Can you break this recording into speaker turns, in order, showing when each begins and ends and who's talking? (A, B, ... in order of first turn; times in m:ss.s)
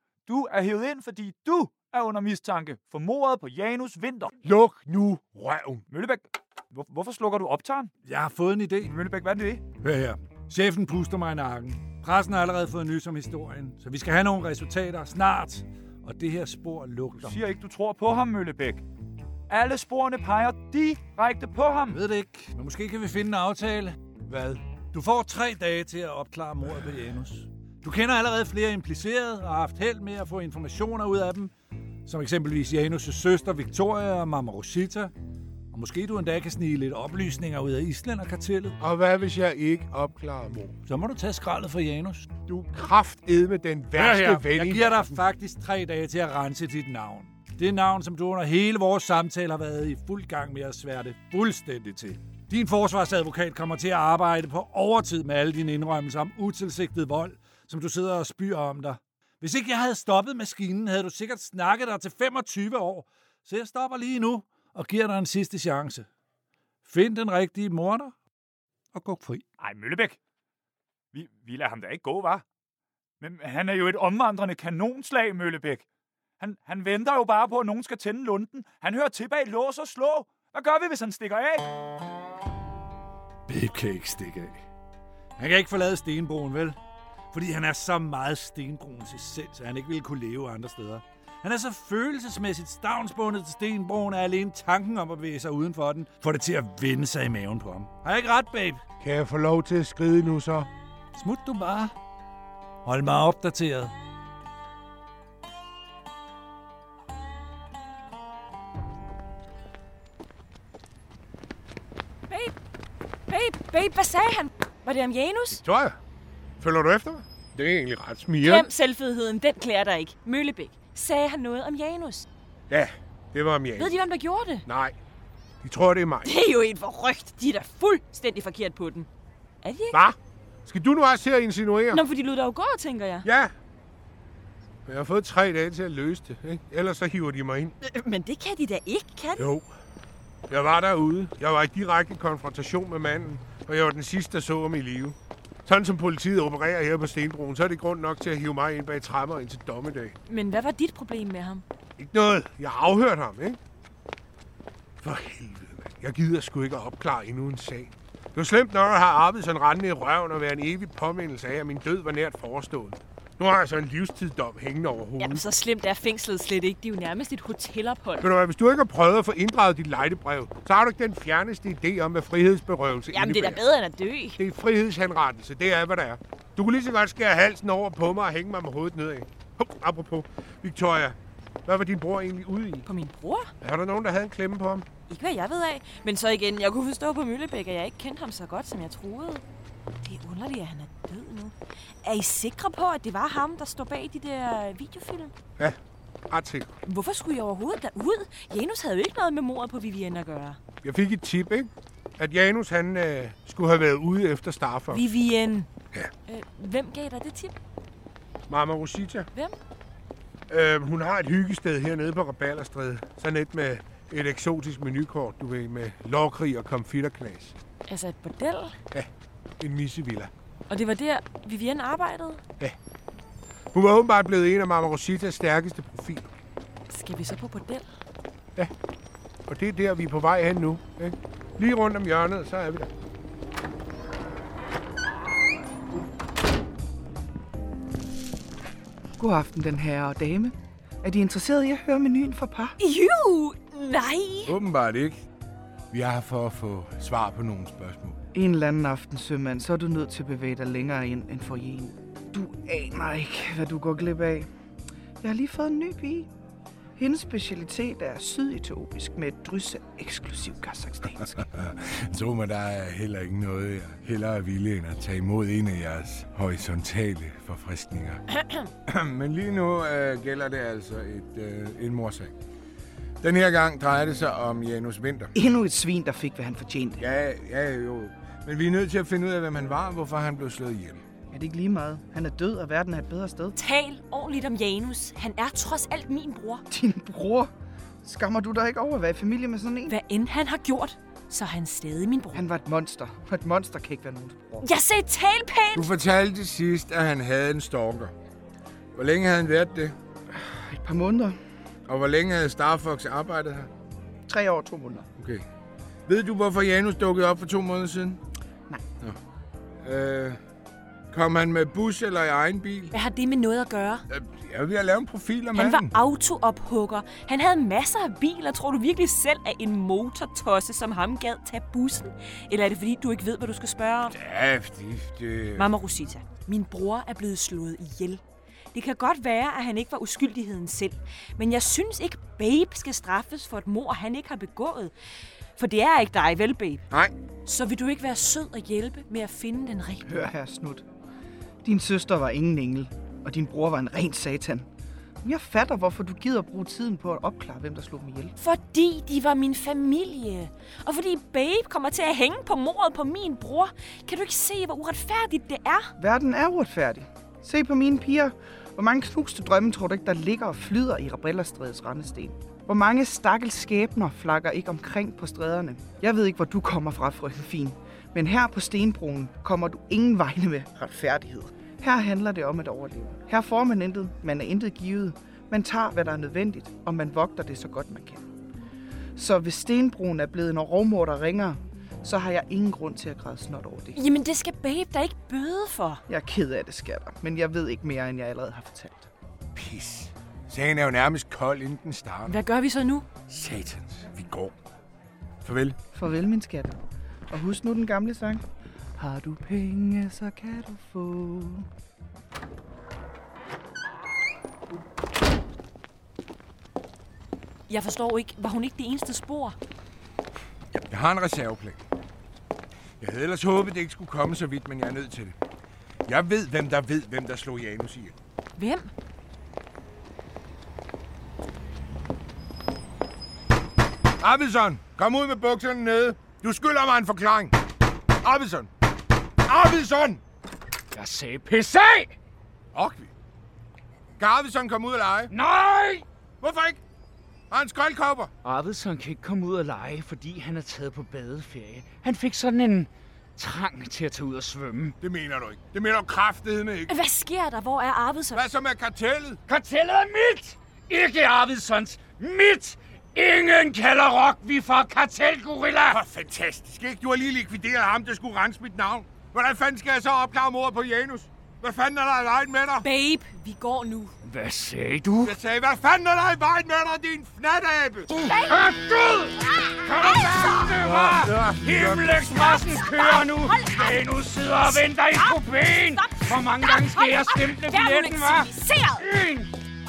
0:00.3-0:04.4 A
0:04.4-0:05.8 B
0:05.9-0:07.9 A
0:08.0-0:08.9 C
0:08.8-0:09.7 A
0:09.7-0:17.4 C
0:17.1-0:18.8 A
0:19.5-0:22.0 A
0:21.9-0:31.5 C
0:32.1-0:35.1 C
0:35.7-0:38.8 C
0:38.8-0:40.8 B
0:40.9-0:42.3 C
0:42.5-0:45.1 B
0:43.9-1:06.1 C
1:06.8-1:08.2 C
1:08.9-1:09.5 C
1:09.6-1:10.2 A
1:11.1-1:12.4 A
1:13.2-1:15.8 A
1:16.4-1:21.7 A
1:23.5-1:24.6 C
1:25.4-1:26.8 C
1:27.3-1:38.8 C
1:39.0-1:40.7 B
1:41.2-1:41.9 C
1:42.8-1:43.9 C
1:52.3-1:52.5 D
1:53.3-1:55.6 D
1:55.6-1:56.0 B
1:56.6-1:58.7 B
1:58.4-2:02.3 D
2:02.7-2:04.0 B
2:03.8-2:04.6 D
2:04.7-2:05.0 B
2:05.6-2:06.3 B
2:06.2-2:09.1 D
2:09.6-2:10.0 D
2:09.9-2:12.0 B
2:11.9-2:13.3 D
2:13.2-2:13.5 B
2:14.9-2:17.8 B
2:17.8-2:19.5 D
2:19.4-2:19.7 B
2:20.5-2:30.2 B
2:30.3-2:31.6 D
2:32.0-2:33.6 B
2:35.0-2:45.4 B
2:45.2-2:48.3 D
2:48.2-2:53.6 B
2:53.1-2:54.4 D
2:54.4-3:02.9 B
3:02.8-3:03.5 D
3:03.6-3:04.9 B
3:05.1-3:09.4 D
3:10.0-3:15.3 D
3:16.3-3:16.7 B
3:16.9-3:20.6 D
3:20.8-3:25.0 B
3:24.9-3:25.7 D
3:26.3-3:27.6 D
3:28.5-3:29.3 B
3:30.5-3:37.6 B
3:37.9-3:38.8 D
3:39.6-3:40.3 B
3:40.7-3:42.4 D
3:43.7-3:46.3 B
3:46.9-3:47.9 D
3:49.5-3:52.9 B
3:59.2-4:02.8 E
4:02.8-4:04.6 D
4:04.5-4:05.2 B
4:05.9-4:08.2 B
4:08.3-4:14.5 E
4:15.2-4:16.3 E
4:17.0-4:21.4 E
4:21.5-4:28.2 B
4:28.9-4:32.3 B
4:33.2-4:35.3 B
4:35.4-4:37.0 E
4:37.0-4:41.0 B
4:41.3-4:43.6 E
4:43.6-4:46.6 D
4:46.7-4:47.5 E
4:48.0-4:50.0 E
4:49.9-4:52.5 D
4:52.3-4:54.7 E
4:54.6-4:55.9 D
4:55.8-4:58.1 B
4:59.0-5:00.0 B
5:00.3-5:01.4 E
5:01.9-5:03.7 B
5:04.3-5:05.1 E
5:05.2-5:05.5 B
5:06.1-5:08.2 B
5:09.8-5:10.4 B
5:11.1-5:12.9 B
5:12.9-5:14.0 D
5:14.1-5:15.9 B
5:15.5-5:24.2 D
5:24.1-5:25.7 B
5:25.6-5:28.2 D
5:28.7-5:34.9 D
5:35.6-5:36.8 D
5:37.5-5:40.3 D
5:40.1-5:40.9 E
5:41.6-5:44.7 E
5:45.2-5:48.3 E
5:48.4-5:55.9 D
5:56.0-6:18.3 E
6:19.2-6:24.0 E
6:24.0-6:26.0 D
6:26.1-6:29.1 E
6:29.6-6:32.4 B
6:32.3-6:33.1 D
6:33.3-6:34.6 B
6:35.4-6:35.8 B
6:35.9-6:36.8 E
6:37.3-6:38.4 E
6:39.0-6:41.7 E
6:47.7-6:49.6 D
6:50.7-6:51.8 B
6:53.0-6:55.4 B
6:56.1-6:58.2 B
6:58.6-6:58.9 D
7:04.2-7:07.6 B
7:08.2-7:08.7 B
7:09.5-7:10.2 B
7:10.9-7:12.1 F
7:12.7-7:13.1 B
7:14.2-7:15.3 B
7:15.3-7:16.0 F
7:16.4-7:16.8 B
7:17.5-7:18.3 B
7:18.4-7:25.0 F
7:25.0-7:26.9 B
7:26.9-7:28.5 D
7:28.3-7:29.4 B
7:29.5-7:36.0 F
7:35.9-7:42.9 B
7:42.8-7:44.2 D
7:44.2-7:45.4 F
7:45.2-7:48.1 B
7:48.1-7:59.5 F
7:48.2-7:48.8 D
7:49.4-7:50.8 D
7:50.8-7:52.1 B
7:52.2-7:54.1 D
7:54.6-7:59.1 D